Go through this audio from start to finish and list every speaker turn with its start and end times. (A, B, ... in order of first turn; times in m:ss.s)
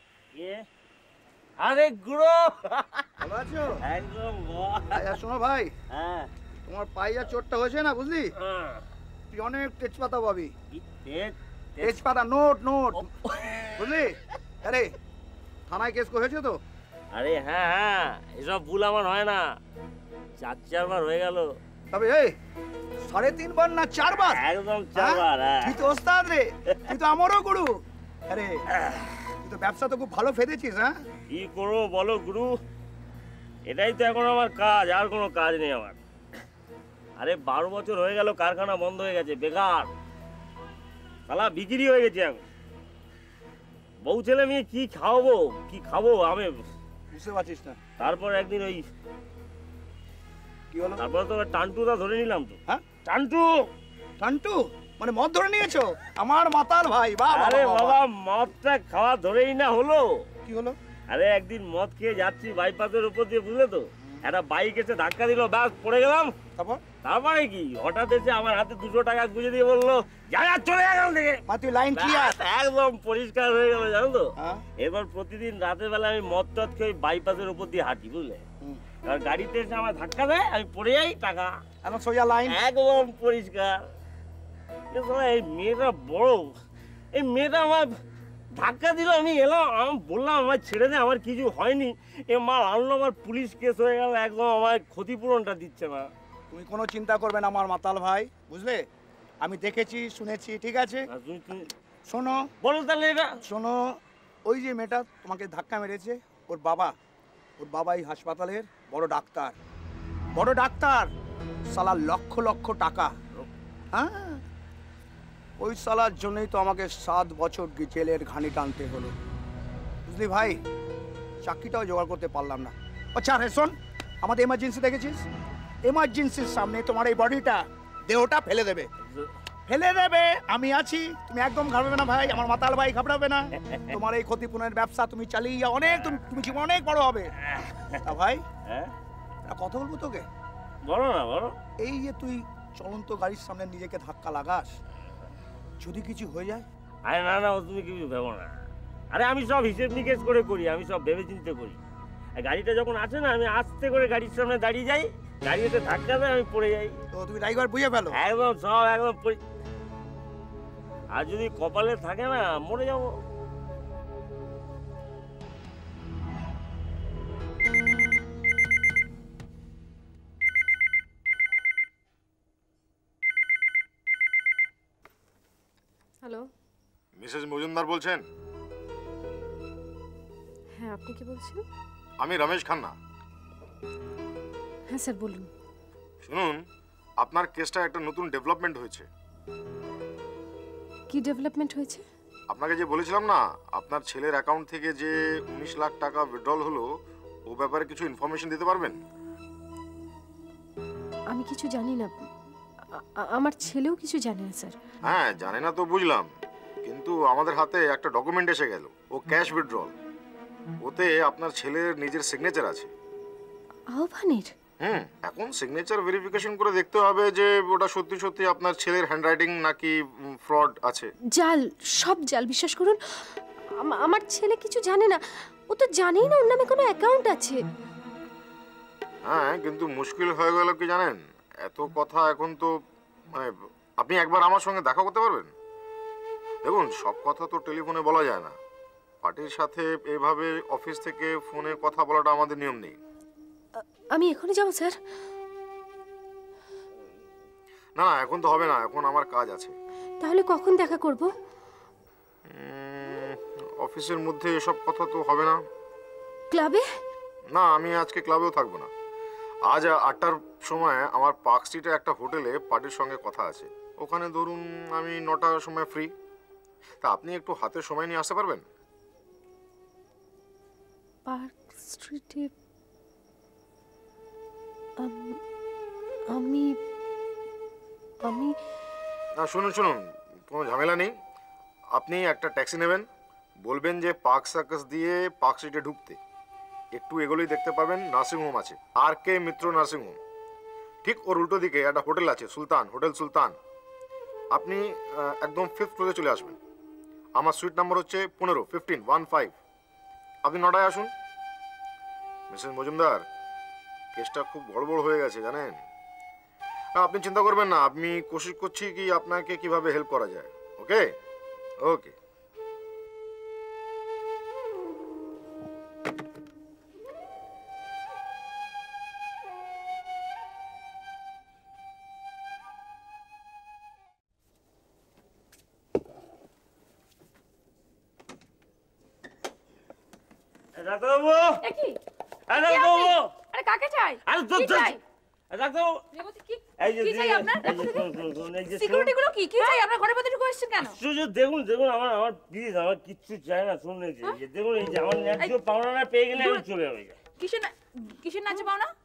0:00.3-0:00.6 A
0:01.6-0:03.1 A
0:03.2-0:03.8 B
0:03.8-0:05.2 A
0:04.9-0:05.7 B
0:05.9-0:06.3 A
0:06.6-0:08.3 B
0:08.4-0:08.8 A
0:09.3-0:10.5 B
0:10.7-0:11.9 A
0:11.8-0:13.1 B
0:13.2-0:13.7 A
0:13.7-0:14.9 B
0:15.7-0:16.6 B
0:17.1-0:19.4 A
0:20.4-0:21.5 A
0:21.9-0:22.3 B
0:23.0-0:24.4 B
0:24.3-0:25.8 A
0:25.0-0:27.8 B
0:28.3-0:28.6 B
0:28.8-0:29.1 A
0:29.4-0:30.9 B
0:31.3-0:32.5 A
0:33.7-0:36.0 A
0:37.2-0:39.9 A
0:41.3-0:42.4 A
0:44.0-0:46.7 A
0:47.1-0:47.8 B
0:48.0-0:48.8 A
0:50.7-0:51.0 B
0:51.0-0:53.5 A
0:54.2-0:58.0 B
0:57.3-1:00.0 A
1:00.4-1:00.8 B
1:01.1-1:06.3 A
1:06.6-1:06.8 B
1:07.0-1:11.4 A
1:11.5-1:12.4 B
1:11.9-1:18.4 A
1:19.0-1:21.6 A
1:21.8-1:22.6 B
1:22.4-1:23.8 A
1:24.9-1:26.5 A
1:27.1-1:27.9 A
1:28.5-1:36.1 A
1:36.5-1:38.8 B
1:39.4-1:41.0 B
1:41.1-1:41.7 A
1:42.1-1:42.4 B
1:42.6-1:43.3 A
1:43.4-1:46.9 B
1:47.6-1:49.6 B
1:50.3-1:51.1 B
1:51.7-1:53.1 B
1:53.9-1:54.4 B
1:55.6-1:59.1 B
2:00.0-2:00.6 B
2:01.4-2:05.2 B
2:05.8-2:08.9 B
2:09.7-2:17.3 B
2:17.5-2:18.0 A
2:18.0-2:18.4 B
2:18.7-2:18.9 A
2:19.5-2:20.3 B
2:20.8-2:21.5 A
2:21.8-2:24.7 B
2:25.8-2:26.6 B
2:27.0-2:28.5 A
2:29.1-2:31.8 A
2:32.4-2:37.0 A
2:37.1-2:38.2 B
2:38.1-2:39.4 A
2:41.1-2:43.1 A
2:56.2-2:56.5 C
2:57.2-2:58.2 D
3:00.8-3:01.6 C
3:02.2-3:02.9 D
3:04.9-3:05.5 C
3:06.2-3:06.6 D
3:07.2-3:09.1 D
3:11.1-3:12.0 C
3:12.5-3:16.9 D
3:17.5-3:19.0 D
3:21.3-3:22.2 C
3:22.9-3:24.7 C
3:25.0-3:26.3 D
3:26.8-3:29.9 D
3:30.8-3:32.9 D
3:33.9-3:34.5 C
3:34.8-3:41.1 D
3:41.4-3:43.3 C
3:43.8-3:47.6 C
3:49.2-3:52.7 D
3:53.3-3:55.5 D
3:56.6-3:58.6 D
3:59.2-4:03.0 D
4:03.8-4:05.0 C
4:08.0-4:09.7 D
4:10.2-4:11.3 C
4:12.5-4:15.6 D
4:16.5-4:16.8 C
4:17.5-4:18.9 D
4:19.7-4:26.1 D
4:27.0-4:28.6 D
4:31.3-4:32.5 C
4:35.0-4:35.4 C
4:36.3-4:36.7 C
4:38.2-4:38.5 C
4:39.4-4:41.1 D
4:41.9-4:43.0 D
4:43.6-4:46.2 D
4:46.9-4:50.2 D
4:51.0-4:53.6 D
4:54.5-4:56.6 D
4:57.4-4:59.6 D
5:00.4-5:01.1 D
5:02.5-5:03.2 D
5:04.1-5:05.8 D
5:07.0-5:11.1 D
5:11.8-5:12.1 D
5:30.8-5:31.6 A
5:31.6-5:32.0 E
5:32.5-5:33.3 A
5:32.5-5:35.0 E
5:34.3-5:35.0 A
5:35.5-5:36.0 A
5:36.1-5:38.0 E
5:36.8-5:39.1 A
5:38.7-5:41.0 E
5:40.8-5:47.2 A
5:46.4-5:46.6 E
5:47.4-5:48.9 E